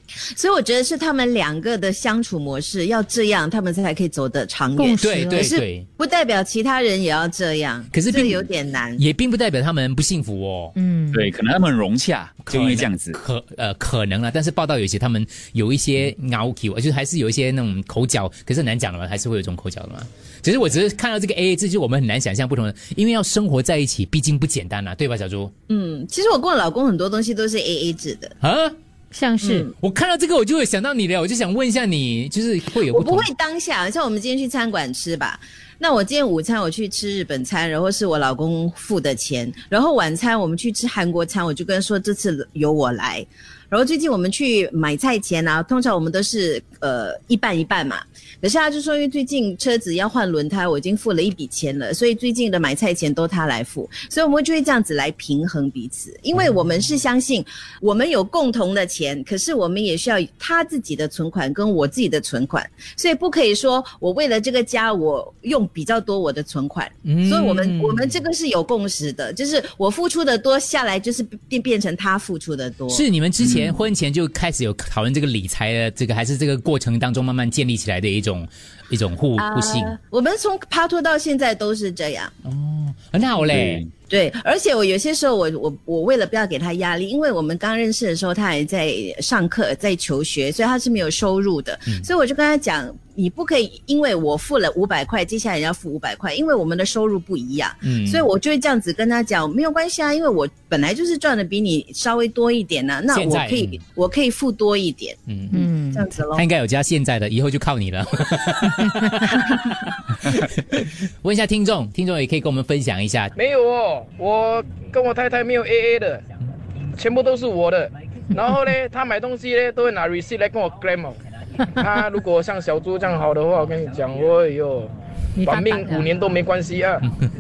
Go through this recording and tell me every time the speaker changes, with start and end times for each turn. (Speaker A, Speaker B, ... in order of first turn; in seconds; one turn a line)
Speaker A: 0.3-9.0
Speaker B: 4.8-5.5
Speaker C: 5.0-5.9
Speaker C: 7.9-10.8
Speaker B: 10.8-11.2
Speaker D: 11.1-13.2
Speaker C: 12.4-25.5
Speaker A: 25.7-28.4
Speaker C: 28.4-28.8
Speaker B: 29.1-29.7
Speaker A: 29.4-29.7
Speaker C: 29.8-33.3
Speaker A: 32.9-73.0
Speaker C: 67.0-68.2
Speaker C: 72.9-80.0
Speaker A: 79.4-82.3
Speaker C: 82.5-83.8
Speaker D: 83.5-83.9
Speaker A: 84.1-105.2
Speaker C: 97.8-98.3
Speaker C: 103.1-103.8
Speaker C: 105.3-105.6
Speaker B: 105.5-106.1
Speaker A: 105.9-106.5
Speaker C: 106.3-113.3
Speaker E: 113.4-116.2
Speaker E: 117.0-127.1
Speaker B: 125.4-126.2